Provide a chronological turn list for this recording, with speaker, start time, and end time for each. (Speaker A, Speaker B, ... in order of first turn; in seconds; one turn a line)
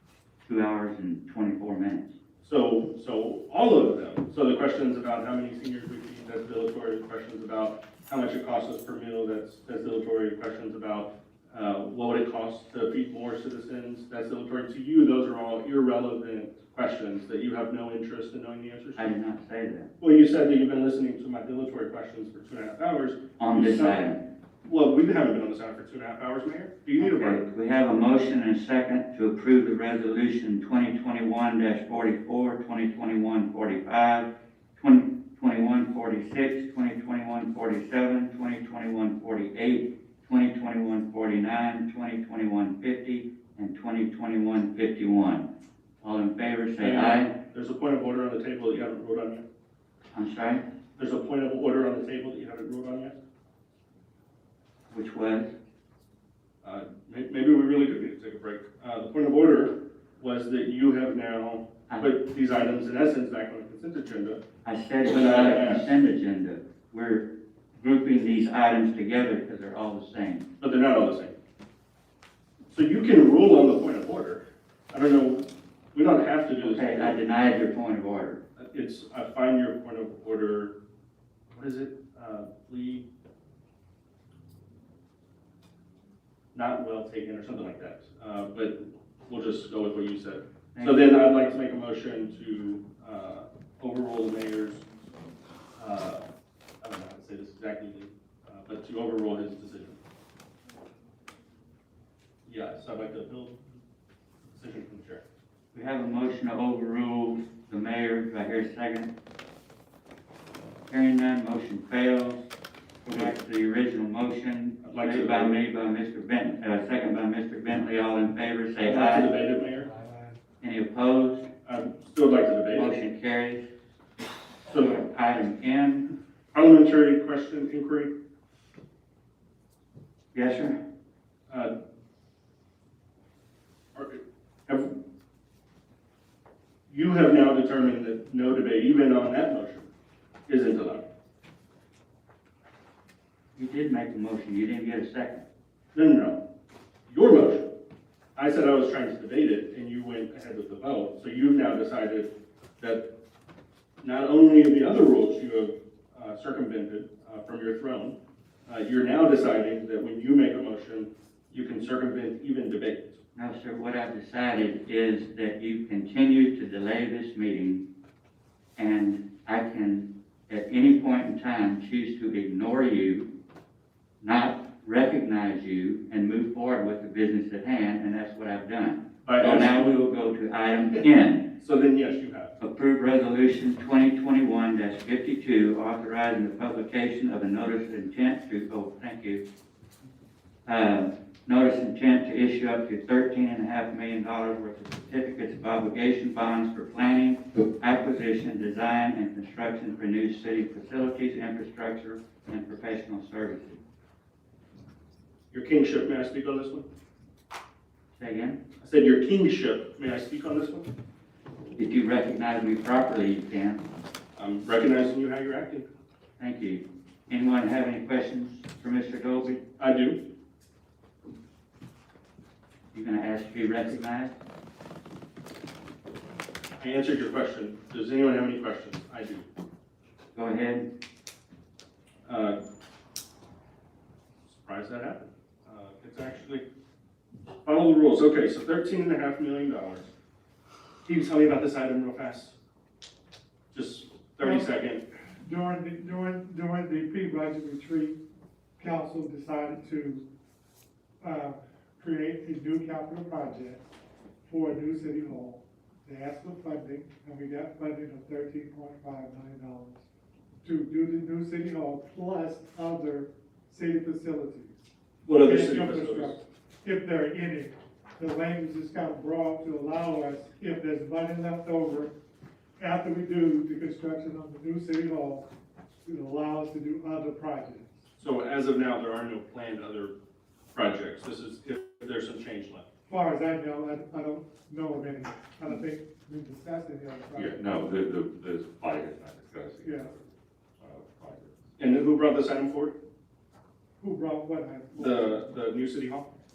Speaker A: 0.5-2.1
Speaker B: 2.4-19.1
Speaker A: 19.0-19.9
Speaker B: 20.0-24.0
Speaker A: 23.4-24.2
Speaker B: 24.6-27.4
Speaker A: 27.0-45.5
Speaker A: 46.0-47.3
Speaker B: 46.8-49.4
Speaker A: 50.1-50.6
Speaker B: 51.0-53.2
Speaker A: 54.9-55.5
Speaker B: 56.6-64.4
Speaker A: 61.9-62.1
Speaker A: 64.7-70.5
Speaker B: 65.0-65.9
Speaker B: 70.6-71.3
Speaker B: 72.7-77.2
Speaker A: 76.6-78.4
Speaker B: 78.6-80.7
Speaker B: 81.5-83.0
Speaker B: 86.5-94.8
Speaker A: 90.7-91.2
Speaker B: 95.8-96.3
Speaker B: 96.8-100.0
Speaker B: 102.5-103.6
Speaker B: 104.5-105.2
Speaker A: 105.7-109.1
Speaker A: 110.9-112.5
Speaker A: 113.0-119.3
Speaker B: 114.8-115.6
Speaker B: 118.8-119.9
Speaker C: 119.8-120.4
Speaker A: 120.6-121.5
Speaker B: 121.7-122.9
Speaker A: 122.7-123.7
Speaker B: 124.7-125.0
Speaker A: 124.7-126.1
Speaker B: 126.5-128.1
Speaker A: 130.3-130.8
Speaker B: 133.9-134.9
Speaker B: 136.9-139.9
Speaker B: 140.5-141.1
Speaker A: 143.6-145.4
Speaker B: 145.9-146.4
Speaker B: 147.1-147.7
Speaker B: 148.4-153.1
Speaker B: 154.0-163.2
Speaker A: 163.3-167.8
Speaker A: 168.8-173.3
Speaker A: 174.2-181.5
Speaker B: 179.2-179.9
Speaker B: 181.6-182.5
Speaker A: 182.6-189.4
Speaker A: 190.7-203.8
Speaker B: 205.5-206.8
Speaker A: 208.1-208.6
Speaker B: 208.8-210.9
Speaker A: 211.8-213.8
Speaker B: 214.4-215.9
Speaker A: 216.4-219.6
Speaker B: 219.8-220.2
Speaker A: 222.9-224.3
Speaker B: 226.8-229.5
Speaker A: 230.3-230.8
Speaker B: 232.2-232.6
Speaker B: 234.5-236.6
Speaker B: 237.7-240.1
Speaker B: 241.1-242.6
Speaker B: 243.7-245.0
Speaker C: 244.4-244.7
Speaker C: 245.4-248.2
Speaker C: 248.8-250.2
Speaker C: 251.2-253.8
Speaker C: 254.4-260.0
Speaker C: 260.6-264.7
Speaker B: 265.2-266.4
Speaker C: 265.4-272.1
Speaker C: 272.8-275.5
Speaker C: 276.1-278.0
Speaker B: 278.2-280.1
Speaker B: 280.8-282.9
Speaker C: 283.1-287.6
Speaker D: 287.3-291.6
Speaker C: 289.8-290.1
Speaker B: 291.8-293.0
Speaker C: 294.0-295.3
Speaker B: 294.9-296.3